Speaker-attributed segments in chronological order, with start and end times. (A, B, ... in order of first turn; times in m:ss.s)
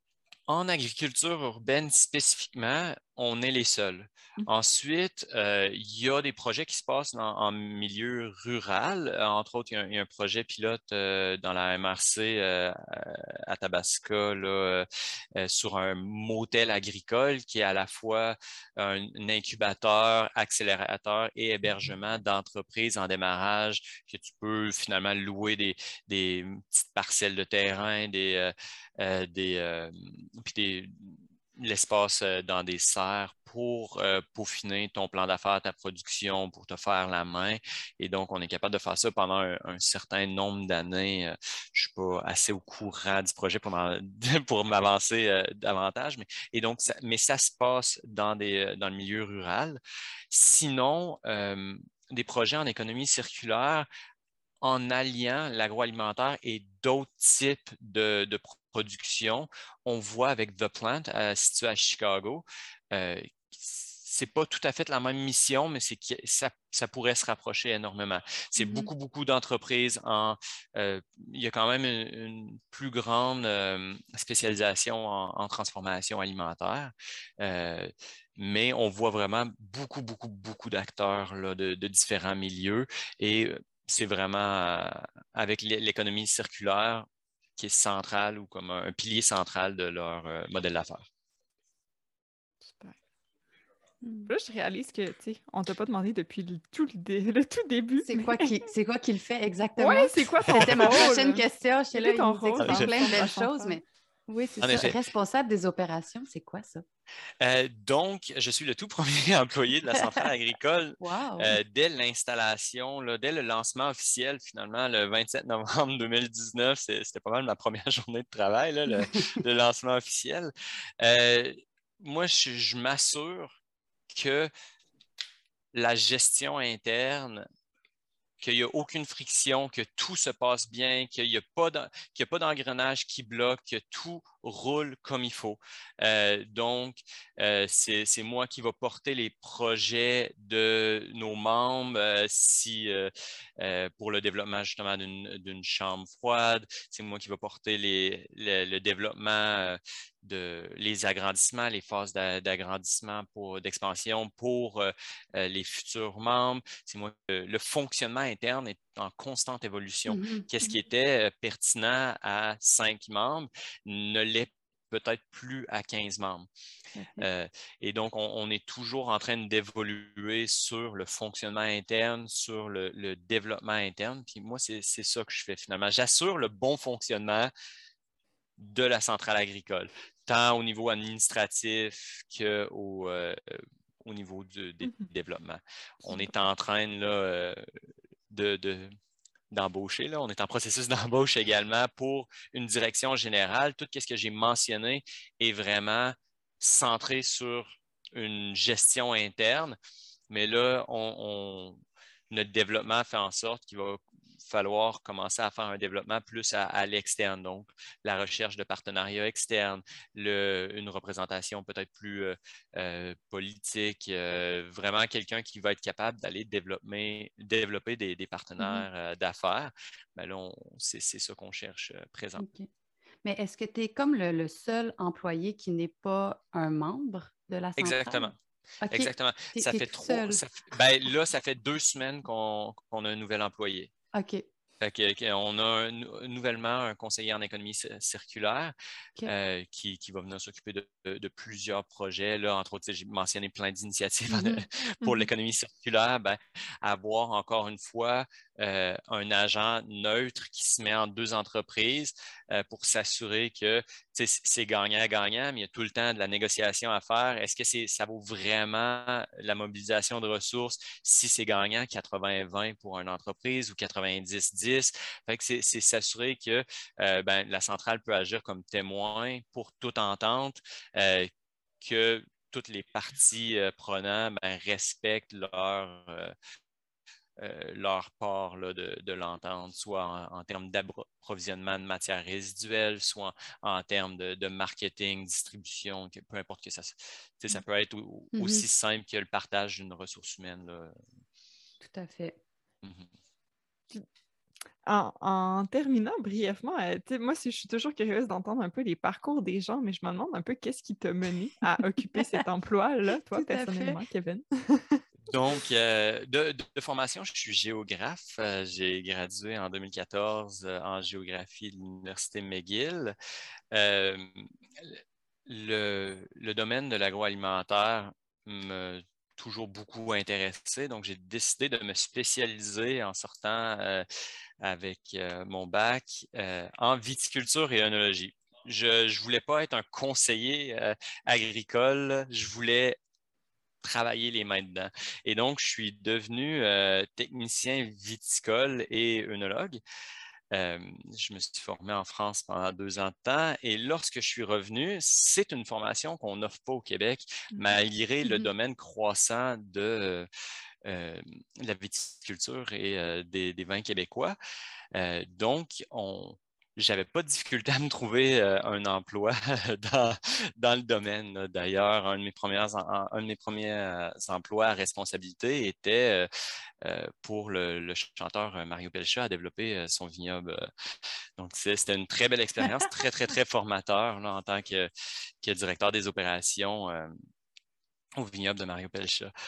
0:00.5-0:53.9 A
0:54.6-1:31.0 A
1:08.6-1:08.9 B
1:32.6-1:33.0 C
1:34.0-1:34.3 B
1:34.3-1:38.7 C
1:38.0-1:43.8 B
1:39.8-1:44.6 C
1:42.6-1:43.2 A
1:44.4-1:46.8 B
1:44.6-1:45.0 A
1:47.4-2:03.6 A
1:51.0-1:51.6 B
1:59.0-1:59.4 B
2:04.1-2:04.5 A
2:05.7-2:07.4 A
2:08.4-2:46.5 A
2:40.1-2:40.5 B
2:47.0-2:47.3 B
2:47.2-2:57.5 A
2:58.6-3:07.6 A
3:08.3-3:08.9 A
3:09.5-3:19.8 A
3:20.3-3:21.8 A
3:22.3-3:42.4 A
3:38.6-3:38.8 B
3:42.4-3:42.7 B
3:43.2-3:50.4 B
3:47.8-3:48.4 A
3:48.9-3:53.9 A
3:54.1-3:54.4 B
3:54.8-3:58.7 A
3:59.2-4:36.3 A
4:04.3-4:04.6 B
4:05.0-4:05.3 C
4:37.4-4:51.0 A
4:48.3-4:48.6 B
4:51.8-4:52.4 B
4:52.8-4:53.1 A
4:54.8-5:05.0 C
5:03.3-5:04.0 B
5:05.3-5:13.2 A
5:13.7-5:24.0 A
5:24.6-5:33.0 A
5:33.8-5:39.8 A
5:40.5-5:50.3 A
5:48.2-5:48.5 B
5:50.8-5:54.4 A
5:54.9-6:06.3 A
6:06.8-6:10.6 A
6:11.4-6:14.9 A
6:15.4-6:17.1 A
6:18.2-6:19.3 A